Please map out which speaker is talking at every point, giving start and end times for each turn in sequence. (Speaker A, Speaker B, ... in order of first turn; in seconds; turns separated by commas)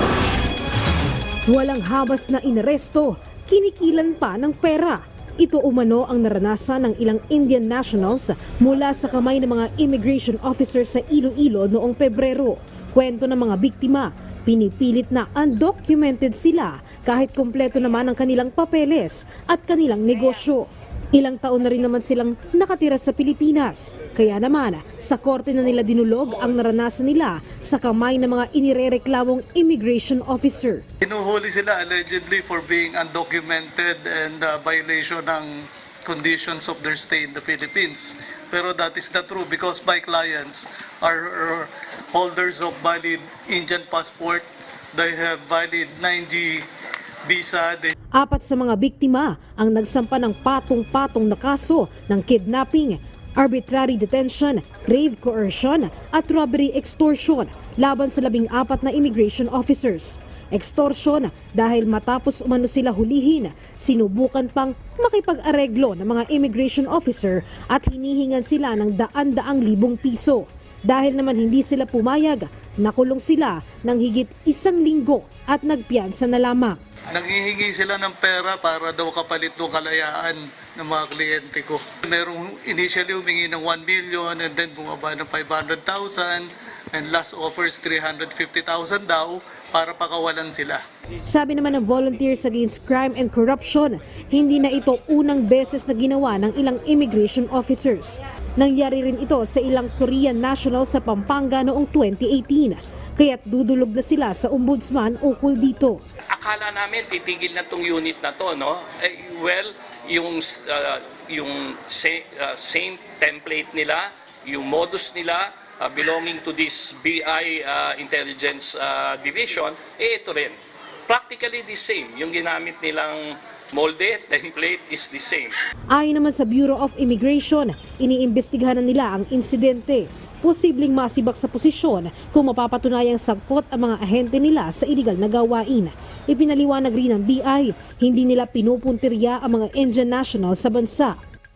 Speaker A: 1.5-30.8, Speaker B: 31.0-46.7, Speaker B: 47.2-47.9, Speaker A: 48.2-76.8, Speaker B: 77.1-90.8, Speaker A: 91.3-106.0, Speaker C: 106.3-125.5, Speaker A: 125.9-141.2